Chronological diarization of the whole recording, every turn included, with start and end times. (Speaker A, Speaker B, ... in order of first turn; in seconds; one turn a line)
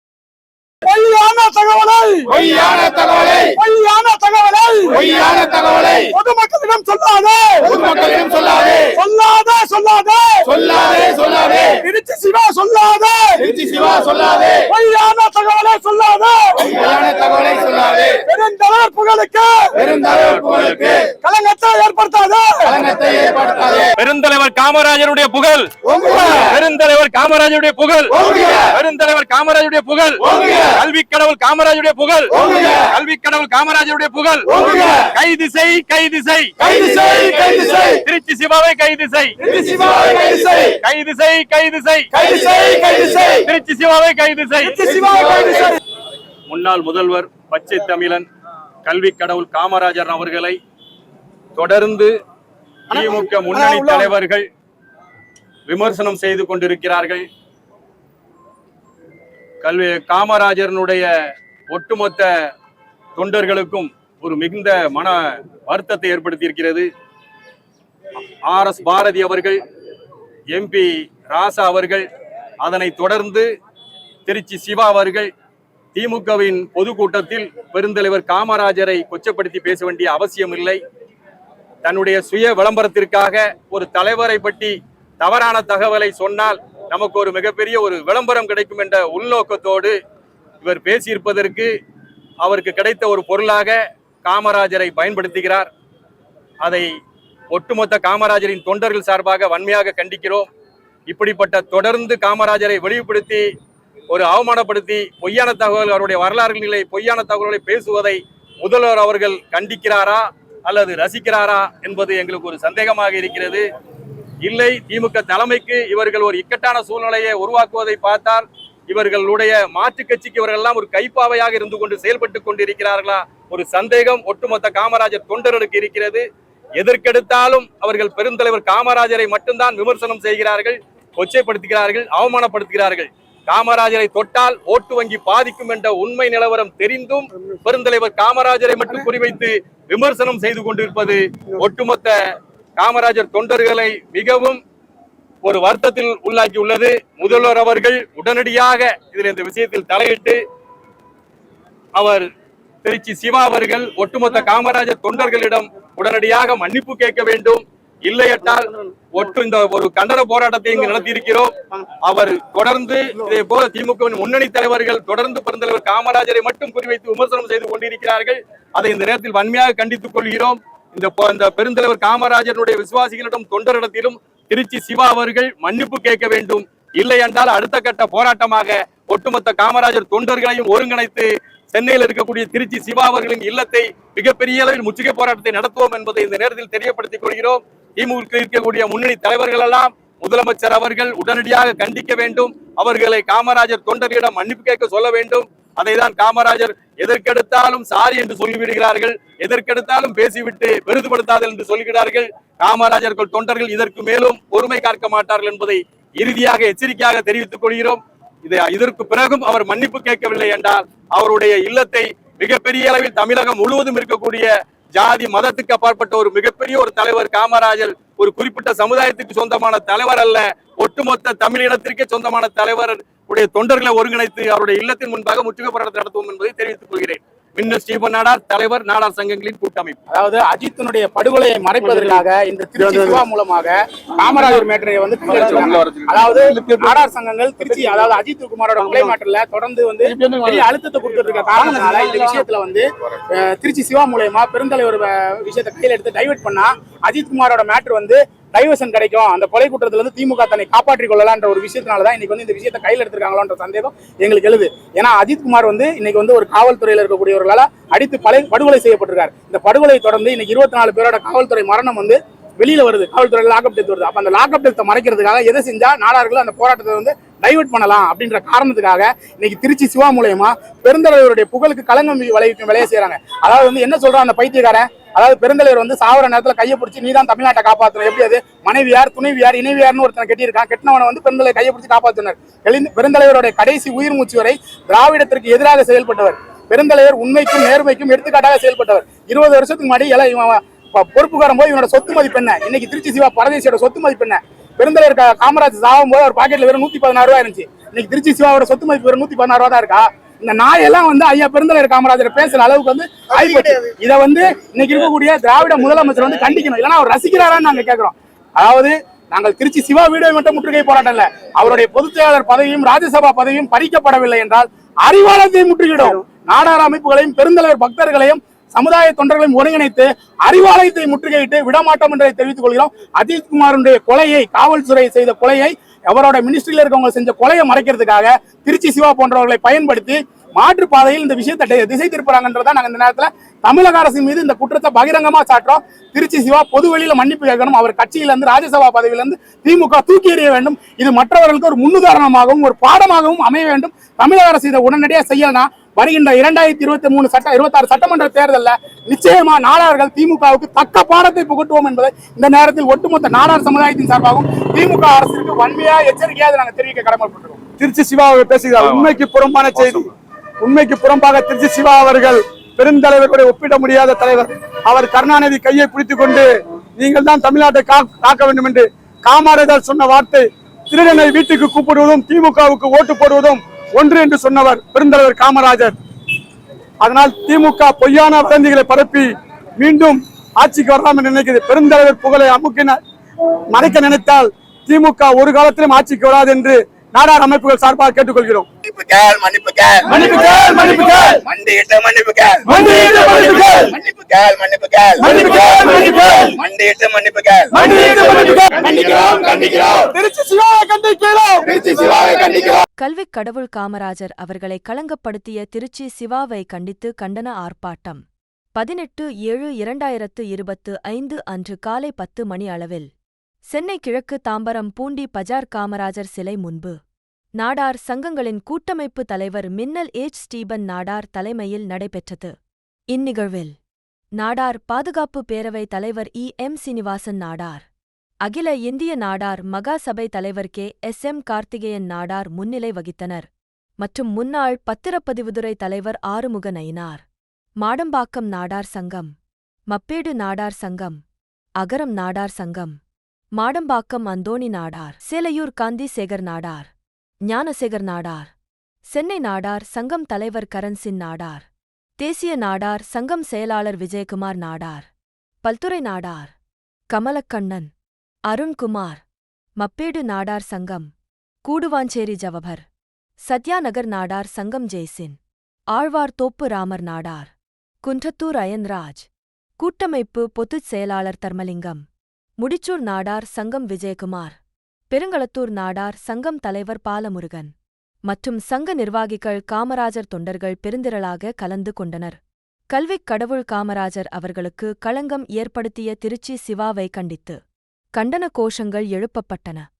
Speaker A: 0.8-2.4
Speaker B: 2.3-3.5
Speaker A: 3.5-5.2
Speaker B: 4.9-6.1
Speaker A: 6.1-7.8
Speaker B: 7.6-8.9
Speaker A: 8.9-10.5
Speaker B: 10.5-11.8
Speaker A: 11.8-13.6
Speaker B: 13.4-14.6
Speaker A: 14.7-16.8
Speaker B: 16.7-18.2
Speaker A: 18.1-22.8
Speaker B: 19.8-21.0
Speaker C: 20.5-20.9
Speaker B: 22.6-23.9
Speaker C: 23.9-39.5
Speaker A: 26.0-26.3
Speaker D: 39.6-40.5
Speaker C: 40.7-42.2
Speaker A: 42.3-43.2
Speaker C: 43.3-44.9
Speaker A: 44.8-45.7
Speaker C: 46.5-48.3
Speaker C: 48.8-50.6
Speaker C: 51.5-52.1
Speaker C: 52.9-54.5
Speaker A: 52.9-54.1
Speaker C: 55.7-57.2
Speaker C: 59.6-61.1
Speaker C: 61.7-62.3
Speaker C: 63.1-66.9
Speaker C: 68.5-69.6
Speaker C: 70.5-72.1
Speaker C: 72.6-73.5
Speaker C: 74.2-75.3
Speaker C: 75.9-80.8
Speaker C: 81.8-89.9
Speaker C: 90.6-91.7
Speaker C: 92.4-95.7
Speaker C: 96.6-96.9
Speaker C: 97.5-100.5
Speaker C: 101.1-103.5
Speaker C: 104.1-113.6
Speaker C: 114.4-126.2
Speaker C: 126.8-142.2
Speaker C: 142.8-144.6
Speaker C: 145.4-150.4
Speaker C: 151.9-152.3
Speaker C: 152.8-161.5
Speaker C: 162.0-230.0
Speaker B: 230.1-357.6
Speaker D: 235.4-236.9
Speaker D: 240.2-240.6
Speaker D: 242.0-242.4
Speaker A: 357.8-360.1
Speaker A: 360.6-375.9
Speaker A: 377.0-383.0
Speaker A: 383.7-388.7
Speaker B: 388.9-390.2
Speaker D: 389.1-389.8
Speaker A: 390.1-391.4
Speaker B: 391.4-397.9
Speaker A: 392.6-393.9
Speaker A: 395.2-396.5
Speaker A: 397.7-399.6
Speaker B: 398.7-400.0
Speaker A: 400.1-401.7
Speaker B: 401.7-402.8
Speaker E: 403.0-408.2
Speaker E: 408.7-413.1
Speaker E: 413.7-417.0
Speaker E: 417.6-422.5
Speaker E: 423.1-423.8
Speaker E: 424.4-427.9
Speaker E: 428.4-433.5
Speaker E: 434.0-437.2
Speaker E: 437.8-439.3
Speaker E: 439.9-441.2
Speaker E: 441.8-443.0
Speaker E: 443.6-446.9
Speaker E: 447.5-448.5
Speaker E: 449.1-451.7
Speaker E: 452.2-455.1
Speaker E: 455.6-456.5
Speaker E: 457.1-457.9
Speaker E: 458.5-459.2
Speaker E: 459.8-461.1
Speaker E: 461.6-462.8
Speaker E: 463.5-465.4
Speaker E: 465.9-467.5
Speaker E: 468.0-469.3
Speaker E: 469.8-472.0
Speaker E: 472.6-474.6
Speaker E: 475.1-477.7
Speaker E: 478.3-482.4
Speaker E: 482.9-487.6
Speaker E: 488.1-489.9